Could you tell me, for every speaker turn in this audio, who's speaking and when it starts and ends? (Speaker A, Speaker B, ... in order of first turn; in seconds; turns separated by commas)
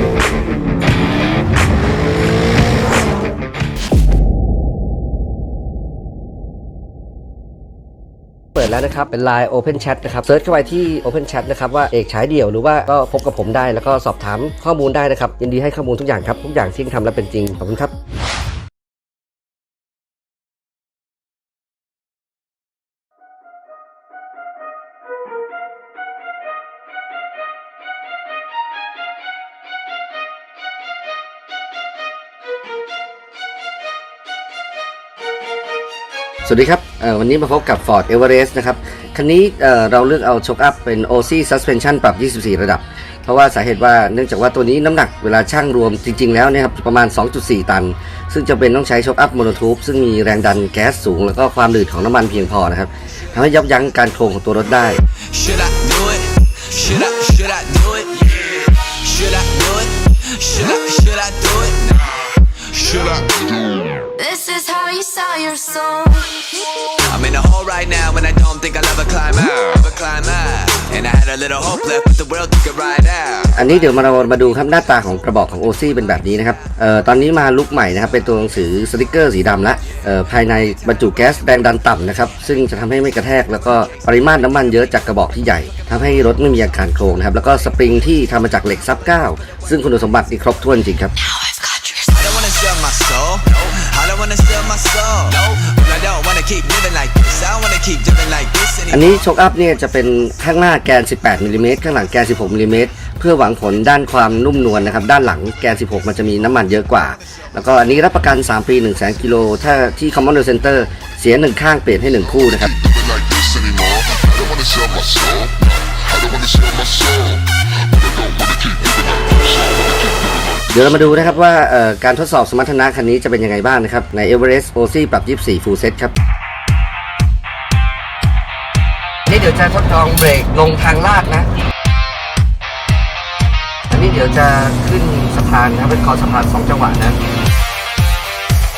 Speaker A: 8.5-17.9, Speaker A: 36.4-55.0, Speaker B: 55.2-63.6, Speaker C: 63.9-66.9, Speaker B: 67.0-73.5, Speaker A: 73.5-91.1, Speaker C: 91.2-92.0, Speaker B: 92.0-99.1, Speaker A: 98.9-112.8, Speaker D: 112.8-115.5, Speaker D: 116.1-117.4, Speaker D: 118.0-120.1, Speaker A: 120.7-126.1, Speaker A: 129.3-131.5, Speaker A: 133.9-137.2